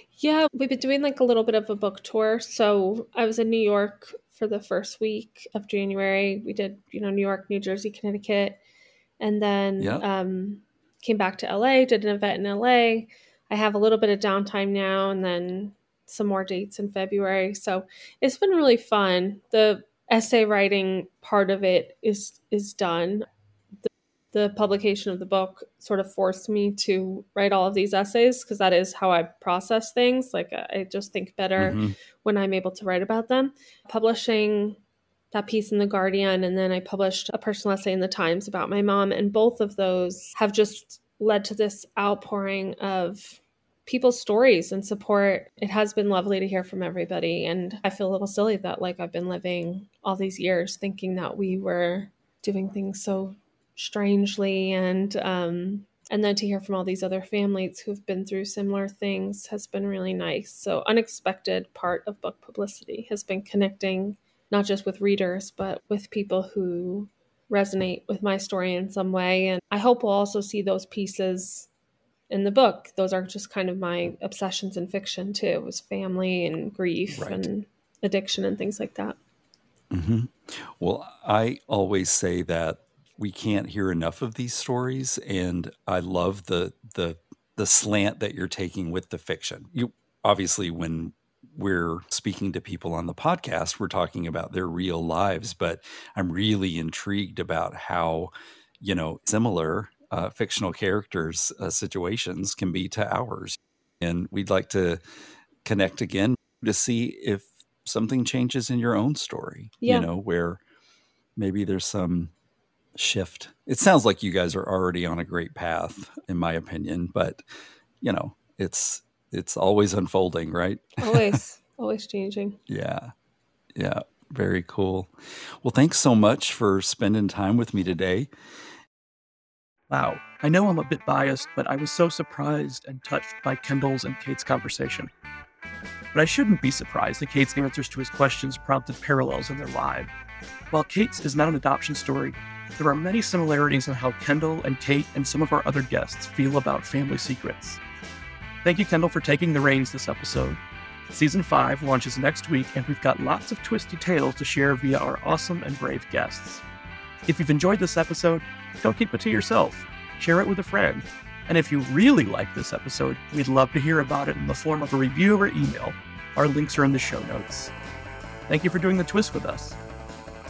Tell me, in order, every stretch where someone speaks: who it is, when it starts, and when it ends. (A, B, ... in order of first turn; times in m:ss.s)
0:00.2-0:08.6 A
0:09.2-0:23.3 A
0:09.8-0:10.0 B
0:23.8-0:34.8 A
0:31.6-0:32.0 B
0:35.3-1:11.7 A
1:12.3-1:19.2 A
1:17.1-1:17.5 B
1:19.9-1:45.0 B
1:45.6-1:50.6 B
1:49.8-1:50.1 A
1:51.4-1:52.3 B
1:53.0-1:57.4 B
1:58.0-2:01.4 B
2:01.0-2:02.6 A
2:02.7-2:03.1 B
2:03.8-2:08.3 B
2:09.9-2:15.1 C
2:16.1-2:20.1 C
2:20.7-2:27.8 C
2:28.6-2:30.6 C
2:31.1-2:36.6 C
2:37.3-2:47.7 C
2:48.5-2:49.8 C